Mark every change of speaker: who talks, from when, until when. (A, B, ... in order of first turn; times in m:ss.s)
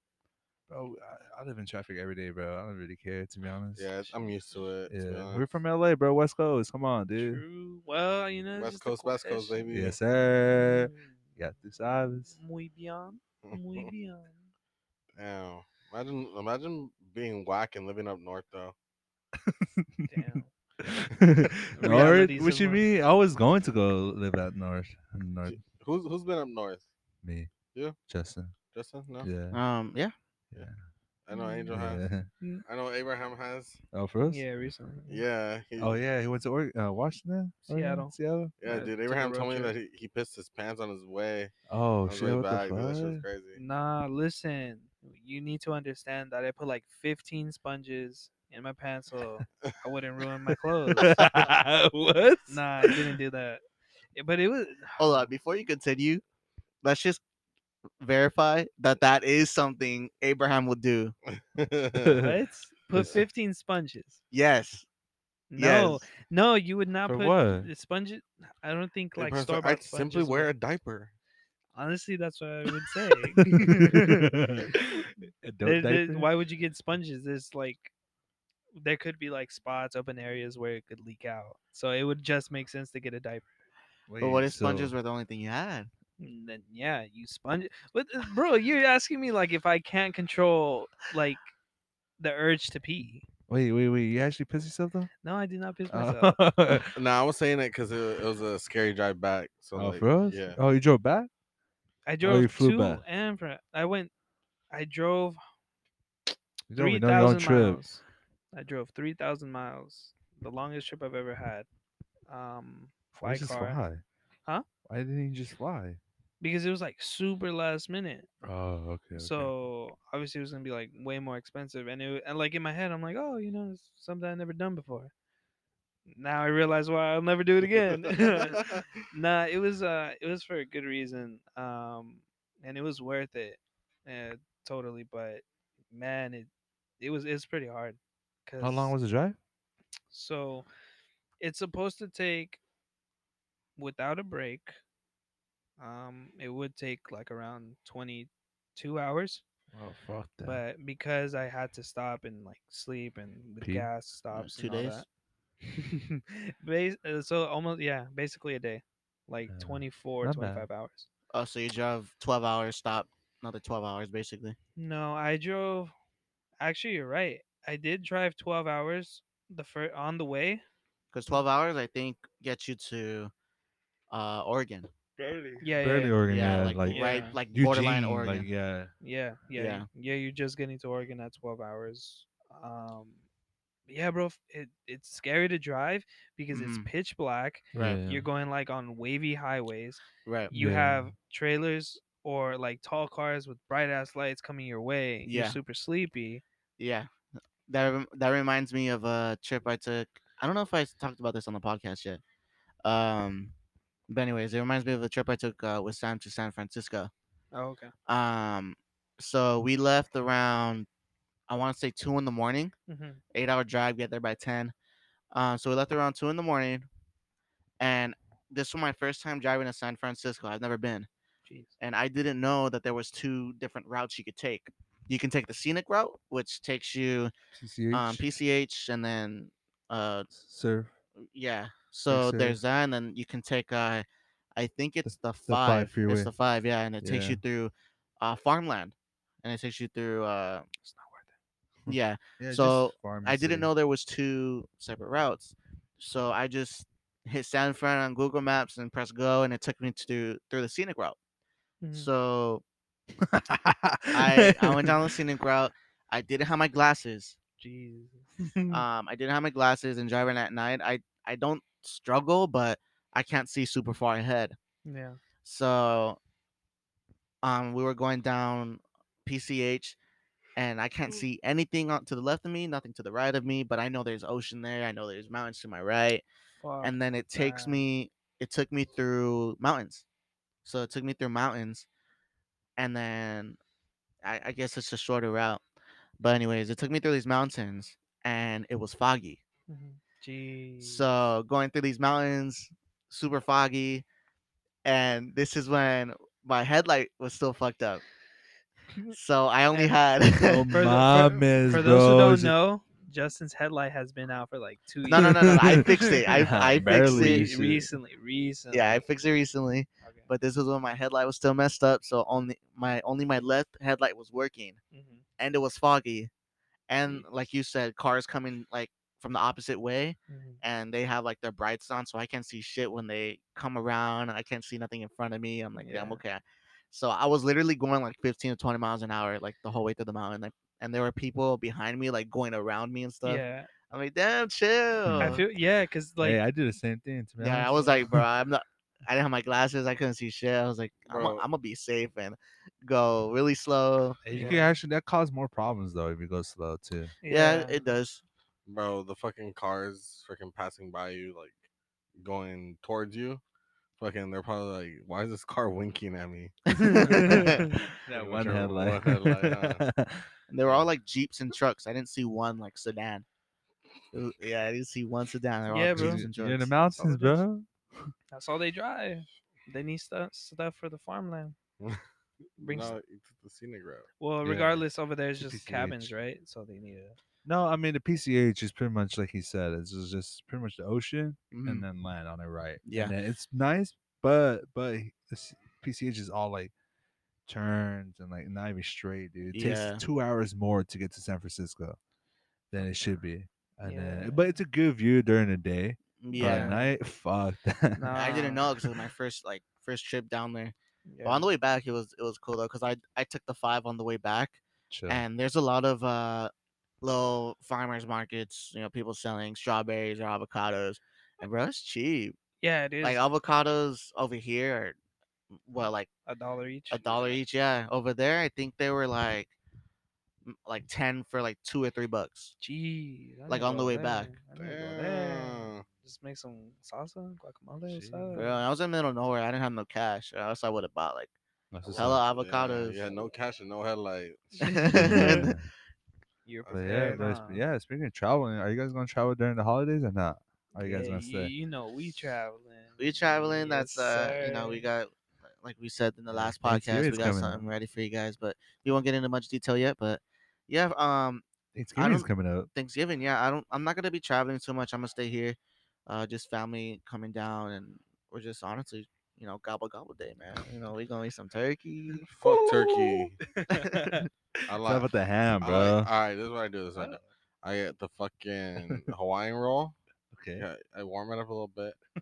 0:00.7-0:03.9 A
0:03.8-0:05.4 B
0:04.9-0:07.4 A
0:07.2-0:09.6 C
0:08.6-0:10.0 B
0:09.7-0:12.4 A
0:10.5-0:11.2 C
0:12.2-0:14.5 C
0:13.4-0:13.9 B
0:15.2-0:18.7 B
0:19.4-0:20.3 A
0:20.1-0:20.5 C
0:20.8-0:25.6 A
0:21.8-0:22.8 C
0:25.5-0:26.9 B
0:27.2-0:27.5 A
0:28.1-0:28.5 A
0:28.7-0:29.3 B
0:29.2-0:29.6 A
0:29.5-0:30.1 D
0:31.3-0:32.0 B
0:31.3-0:31.7 C
0:31.7-0:32.3 A
0:32.7-0:33.8 B
0:33.9-0:34.4 A
0:34.3-0:35.2 C
0:35.1-0:36.0 B
0:35.8-0:38.5 A
0:37.7-0:39.8 C
0:38.6-0:41.5 B
0:41.7-0:43.2 A
0:42.1-0:43.6 B
0:43.6-0:51.2 C
0:51.0-0:53.0 A
0:52.5-0:53.6 C
0:54.2-0:55.3 C
0:55.0-0:56.2 D
0:56.8-0:57.2 D
0:58.0-1:01.2 D
1:01.4-1:02.2 B
1:02.0-1:02.3 A
1:02.2-1:04.2 C
1:02.9-1:03.2 A
1:04.3-1:04.9 D
1:05.5-1:10.5 C
1:05.6-1:06.0 D
1:07.1-1:07.7 A
1:09.2-1:11.1 B
1:11.8-1:14.3 C
1:13.4-1:16.3 A
1:15.6-1:17.9 C
1:18.8-1:23.5 C
1:24.1-1:24.9 A
1:24.2-1:25.9 D
1:26.2-1:31.5 C
1:32.2-1:33.2 C
1:33.5-1:35.1 A
1:35.2-1:36.4 C
1:35.9-1:37.0 A
1:36.9-1:40.6 B
1:39.8-1:41.3 A
1:42.1-1:44.1 C
1:42.2-1:43.0 A
1:44.7-1:45.4 C
1:46.7-1:47.8 A
1:46.8-1:51.7 C
1:52.3-1:53.8 C
1:53.2-1:54.0 A
1:54.8-1:56.0 A
1:56.4-1:58.3 C
1:58.4-1:59.5 A
1:59.2-2:05.1 C
2:06.1-2:19.0 C
2:08.5-2:08.9 B
2:18.6-2:19.4 A
2:20.1-2:20.7 C
2:21.4-2:22.6 C
2:23.8-2:24.8 C
2:25.8-2:29.4 C
2:29.7-2:30.6 A
2:30.4-2:35.1 C
2:33.6-2:33.9 A
2:34.3-2:35.0 D
2:35.7-2:41.1 C
2:39.5-2:40.7 A
2:41.3-2:44.6 D
2:44.8-2:45.9 C
2:46.6-2:50.6 C
2:51.1-2:53.3 D
2:54.1-2:54.9 D
2:55.2-2:58.9 A
2:55.6-2:57.4 C
2:56.3-2:58.5 D
2:59.0-3:03.2 C
2:59.6-2:59.9 D
3:03.9-3:16.4 C
3:06.5-3:06.9 D
3:07.7-3:08.3 A
3:10.3-3:10.5 D
3:10.5-3:11.1 A
3:15.3-3:15.6 D
3:16.8-3:17.1 D
3:17.7-3:22.2 D
3:22.8-3:23.5 D
3:24.1-3:27.1 D
3:27.5-3:27.9 C
3:28.1-3:30.9 D
3:31.5-3:32.7 D
3:32.9-3:33.2 C
3:33.3-3:34.7 D
3:35.3-3:36.9 D
3:37.8-3:41.1 D
3:41.5-3:41.7 C
3:41.8-3:47.3 D
3:47.6-3:48.2 A
3:47.9-3:50.3 D
3:50.3-3:50.9 A
3:51.3-3:54.0 D
3:52.1-3:52.6 A
3:54.6-4:00.7 D
3:55.0-3:56.3 A
3:57.0-3:57.4 A
4:00.8-4:01.3 C
4:01.8-4:03.7 A
4:01.9-4:11.2 D
4:11.8-4:12.1 C
4:11.9-4:12.6 D
4:13.2-4:15.2 A
4:14.1-4:17.4 D
4:17.6-4:18.8 C
4:18.7-4:24.6 D
4:24.8-4:25.2 C
4:25.4-4:26.2 D
4:27.4-4:30.0 D
4:30.6-4:36.2 D
4:36.6-4:37.8 C
4:36.8-4:40.0 D
4:40.6-4:41.9 D
4:42.8-4:43.6 D
4:44.2-4:45.6 D
4:46.2-4:49.4 D
4:49.7-4:51.1 C
4:50.8-4:54.0 D
4:54.8-4:58.0 D
4:59.1-5:00.8 D
5:00.4-5:02.6 A
5:00.7-5:06.1 C
5:05.0-5:07.6 D
5:05.1-5:07.9 A
5:07.1-5:09.0 C
5:07.2-5:07.6 B
5:08.7-5:14.8 D
5:10.0-5:10.3 C
5:14.9-5:15.2 C
5:15.4-5:16.3 D
5:16.9-5:35.4 D
5:20.3-5:20.6 C
5:25.8-5:26.2 C
5:33.2-5:33.7 C
5:35.1-5:35.4 A
5:35.2-5:36.4 C
5:36.2-5:38.2 A
5:37.4-5:44.6 D
5:41.1-5:41.4 B
5:44.3-5:47.1 A
5:44.4-5:44.6 C
5:47.2-5:47.8 C
5:47.3-5:48.2 D
5:48.7-5:51.6 B
5:52.2-5:53.4 B
5:54.0-5:56.6 B
5:56.7-5:57.8 D
5:56.9-5:58.6 C
5:57.1-6:00.3 A
5:58.1-5:59.8 B
6:00.5-6:03.2 D
6:04.1-6:06.8 D
6:05.7-6:06.3 C
6:05.9-6:08.1 A
6:06.8-6:07.4 C
6:08.3-6:11.6 C
6:12.6-6:13.0 C
6:12.6-6:14.1 B
6:14.2-6:17.2 C
6:14.4-6:14.8 A
6:15.4-6:16.1 A
6:17.4-6:26.7 A
6:21.5-6:21.9 D
6:22.8-6:23.1 D
6:27.5-6:32.0 A
6:29.5-6:30.0 D
6:32.7-6:38.2 A
6:33.8-6:34.4 C
6:36.2-6:36.8 D
6:36.3-6:36.8 C
6:38.0-6:38.7 C
6:38.1-6:52.4 D
6:41.1-6:41.5 C
6:44.9-6:45.2 A
6:52.6-6:53.2 C
6:53.0-6:55.0 D
6:55.7-6:56.1 D
6:56.3-6:57.4 C
6:56.9-6:59.5 D
7:00.5-7:02.6 D
7:02.6-7:08.6 C
7:03.5-7:04.4 D
7:04.6-7:05.8 B
7:07.9-7:08.4 A
7:08.3-7:11.3 D
7:11.7-7:12.2 A
7:11.9-7:14.6 B
7:12.0-7:13.0 D
7:14.6-7:15.5 C
7:14.6-7:15.6 D
7:14.9-7:15.7 A
7:16.5-7:17.6 C
7:16.7-7:17.2 B
7:16.7-7:21.5 A
7:20.8-7:24.9 C
7:23.0-7:31.4 D
7:26.3-7:27.7 A
7:31.7-7:32.7 A
7:32.0-7:42.3 D
7:42.1-7:46.1 A
7:42.3-7:43.4 B
7:43.7-7:44.2 D
7:44.7-7:50.0 B
7:48.8-7:49.1 A
7:50.3-7:50.7 A
7:50.6-7:52.0 B